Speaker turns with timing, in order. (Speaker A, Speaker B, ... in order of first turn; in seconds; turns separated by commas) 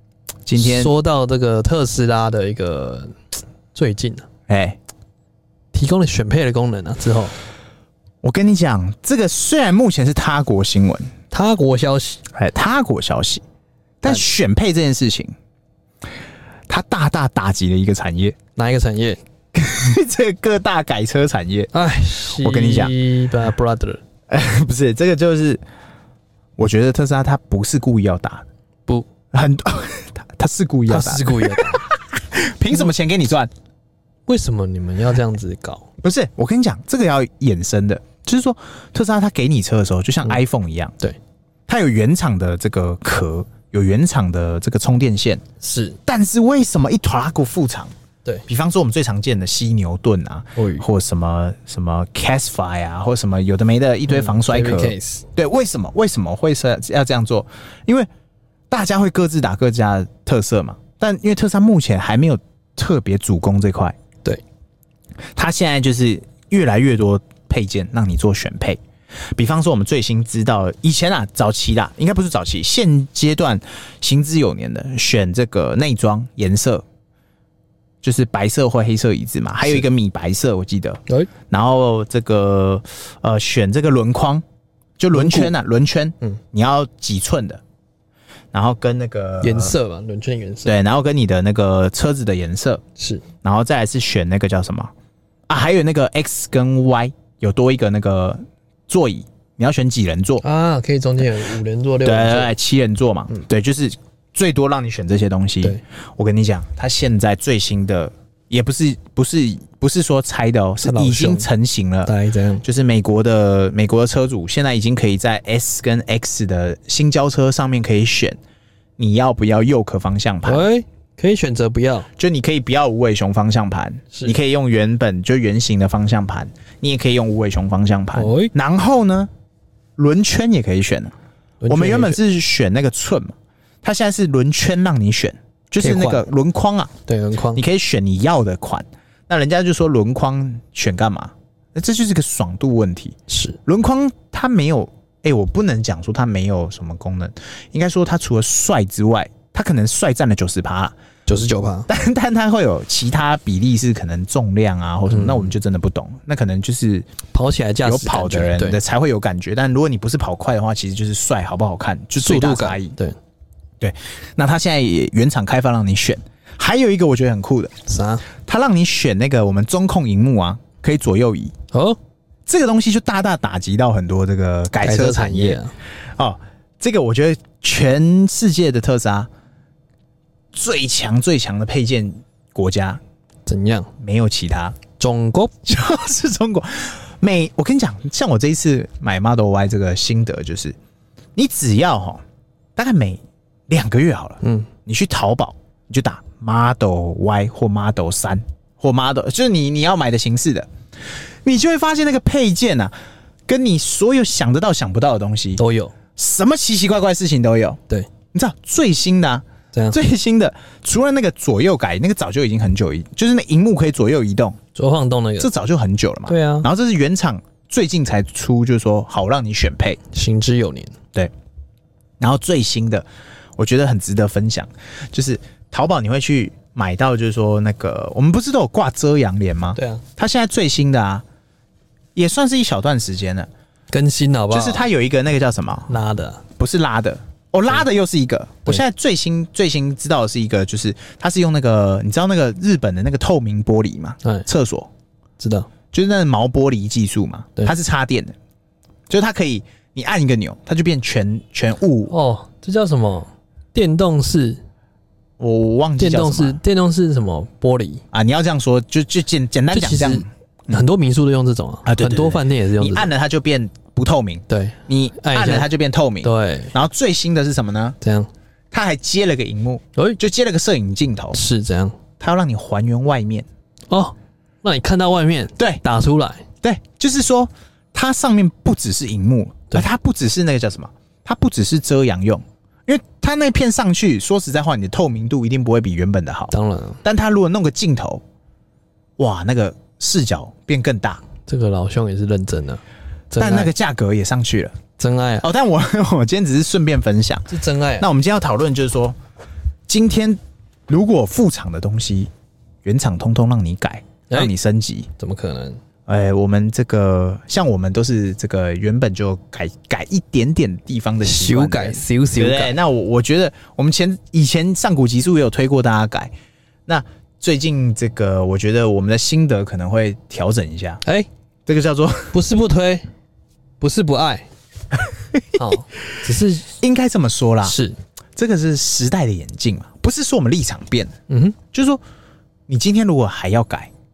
Speaker A: 0.5-0.9, Speaker B: 0.6-3.2, Speaker B: 3.7-4.3, Speaker A: 4.5-4.8, Speaker B: 5.7-7.3, Speaker A: 8.2-11.1, Speaker B: 11.3-12.2, Speaker A: 12.3-13.4, Speaker A: 14.0-15.3, Speaker A: 16.7-18.4, Speaker B: 18.6-19.2, Speaker A: 19.5-21.7, Speaker B: 21.7-24.0, Speaker A: 22.3-22.9, Speaker A: 24.3-25.6, Speaker A: 26.6-28.4, Speaker A: 29.3-33.5, Speaker B: 30.9-31.9, Speaker B: 34.3-35.9, Speaker A: 36.0-41.0, Speaker A: 41.7-45.4, Speaker B: 45.6-46.0, Speaker A: 46.0-47.9, Speaker A: 48.5-58.1, Speaker B: 50.5-50.9, Speaker B: 54.1-55.2, Speaker A: 58.7-64.0, Speaker A: 65.4-68.8, Speaker A: 69.3-76.8, Speaker A: 78.0-84.4, Speaker A: 85.0-87.6, Speaker B: 85.1-85.5, Speaker A: 88.5-89.8, Speaker B: 89.4-90.7, Speaker A: 90.6-92.8, Speaker B: 93.0-93.2, Speaker A: 93.4-94.9, Speaker A: 95.5-100.4, Speaker B: 100.4-102.5, Speaker A: 102.0-118.4, Speaker B: 110.8-111.5, Speaker B: 112.0-112.6, Speaker A: 119.0-120.7, Speaker B: 120.4-122.1, Speaker A: 122.2-129.3, Speaker B: 124.1-124.4, Speaker B: 128.1-128.5, Speaker A: 130.0-131.1, Speaker B: 131.6-132.2, Speaker A: 131.7-136.9, Speaker B: 135.8-136.2, Speaker B: 137.1-137.6, Speaker A: 137.5-150.9, Speaker B: 143.3-143.6, Speaker B: 151.3-151.9, Speaker A: 151.9-157.1, Speaker B: 155.1-155.5, Speaker B: 157.3-158.8, Speaker A: 157.8-163.0, Speaker B: 162.2-163.2, Speaker A: 163.8-167.8, Speaker B: 167.9-168.2, Speaker A: 168.4-171.5, Speaker B: 171.7-172.0, Speaker A: 172.5-175.6, Speaker B: 174.8-175.7, Speaker A: 176.2-179.3, Speaker A: 180.5-183.0, Speaker B: 183.5-183.9, Speaker A: 184.0-184.8, Speaker B: 185.0-185.5, Speaker A: 185.6-190.8, Speaker A: 191.3-192.2, Speaker A: 192.8-200.7, Speaker B: 194.4-194.7, Speaker A: 201.4-202.9, Speaker A: 203.5-205.6, Speaker B: 205.6-205.9, Speaker A: 206.2-207.8, Speaker A: 208.3-214.6, Speaker B: 214.7-215.5, Speaker A: 215.4-220.0, Speaker B: 216.3-216.7, Speaker B: 220.1-221.0, Speaker A: 222.2-223.1, Speaker A: 223.6-231.2, Speaker B: 229.8-230.0, Speaker A: 232.1-233.5, Speaker B: 233.9-234.8, Speaker A: 234.5-235.9, Speaker B: 235.9-236.4, Speaker A: 236.6-244.9, Speaker B: 245.4-245.7, Speaker A: 245.9-248.3, Speaker A: 249.1-252.1, Speaker B: 252.1-254.6, Speaker A: 255.4-256.6, Speaker B: 256.0-258.0, Speaker A: 258.1-260.8, Speaker B: 259.7-263.1, Speaker A: 261.9-268.0, Speaker B: 264.5-265.7, Speaker B: 266.2-266.7, Speaker B: 268.0-268.3, Speaker A: 268.7-271.4, Speaker B: 271.3-272.0, Speaker A: 272.2-273.5, Speaker B: 273.9-276.5, Speaker A: 276.6-286.5, Speaker B: 286.5-287.0, Speaker A: 287.0-288.2, Speaker A: 289.2-291.2, Speaker B: 291.4-293.7, Speaker A: 293.4-294.8, Speaker B: 295.0-295.5, Speaker A: 295.4-299.2, Speaker B: 297.5-298.1, Speaker A: 299.9-302.3, Speaker A: 302.8-305.1, Speaker B: 305.2-305.8, Speaker A: 306.1-316.3, Speaker B: 311.2-312.8, Speaker A: 316.9-321.0, Speaker A: 321.7-322.3, Speaker B: 322.3-323.1, Speaker B: 323.8-324.5, Speaker A: 325.3-325.6, Speaker B: 325.6-326.7, Speaker A: 326.8-327.8, Speaker B: 327.6-328.0, Speaker A: 328.4-331.1, Speaker B: 331.3-331.6, Speaker A: 331.7-332.0, Speaker A: 332.7-333.9